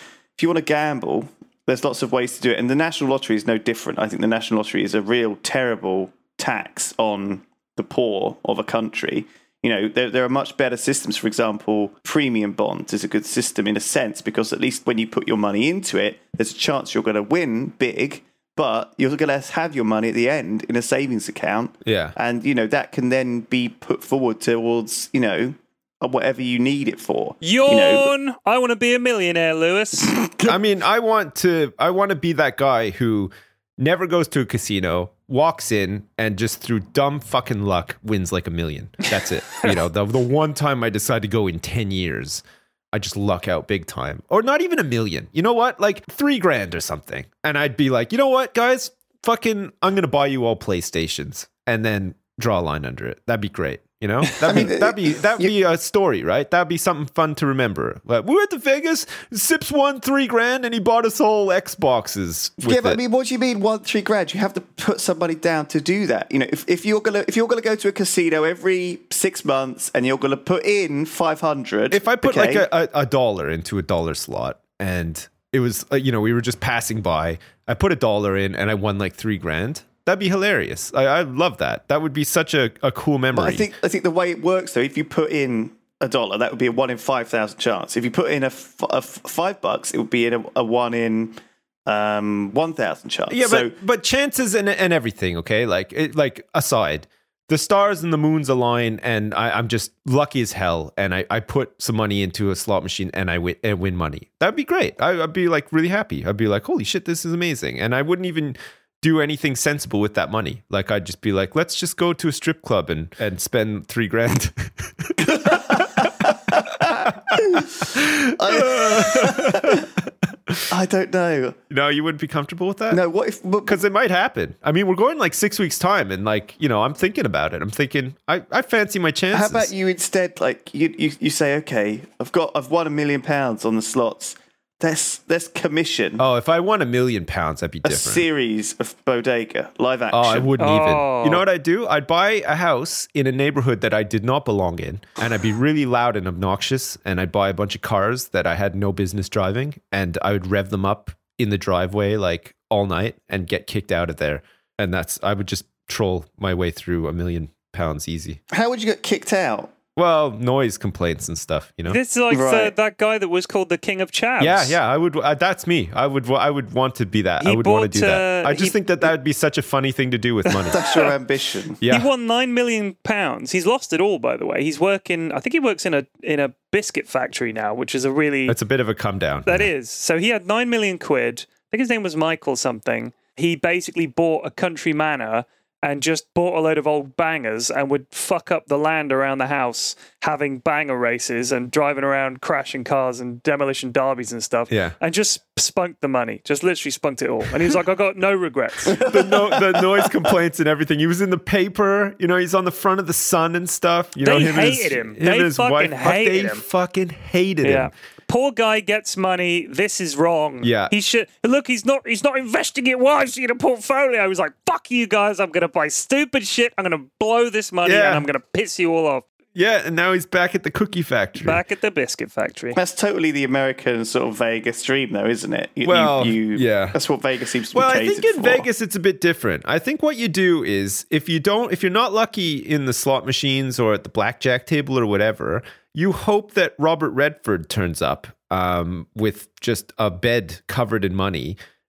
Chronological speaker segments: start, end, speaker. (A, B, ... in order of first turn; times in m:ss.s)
0:00.4-0:28.1 A
0:21.8-0:22.2 B
0:27.4-0:30.2 C
0:30.1-0:30.6 A
0:30.4-1:03.0 B
0:54.4-0:55.5 A
1:02.6-1:12.6 A
1:11.9-1:23.7 B
1:23.3-1:33.7 A
1:33.3-2:00.6 B
1:55.2-1:59.9 A
2:00.7-2:01.6 A
2:01.7-2:03.0 B
2:02.9-2:03.8 A
2:03.6-2:09.7 B
2:09.3-2:16.2 A
2:16.2-2:18.3 B
2:17.8-2:20.5 A
2:20.1-2:38.4 B
2:20.6-2:21.4 C
2:38.5-2:39.7 A
2:40.0-2:42.0 B
2:41.9-2:44.8 C
2:42.3-2:42.7 A
2:44.4-2:50.8 B
2:47.4-2:49.1 C
2:50.5-2:51.1 C
2:50.7-2:51.8 A
2:51.8-2:52.1 B
2:51.9-2:58.6 C
2:58.5-2:59.7 B
2:59.5-3:19.0 C
3:14.7-3:15.0 B
3:18.9-3:20.3 A
3:18.9-3:27.9 B
3:24.2-3:26.6 C
3:27.6-3:39.3 C
3:30.6-3:30.9 B
3:37.8-3:38.3 B
3:39.6-3:41.6 B
3:41.4-3:42.8 C
3:42.8-3:48.7 A
3:45.8-3:47.0 B
3:47.7-4:01.6 B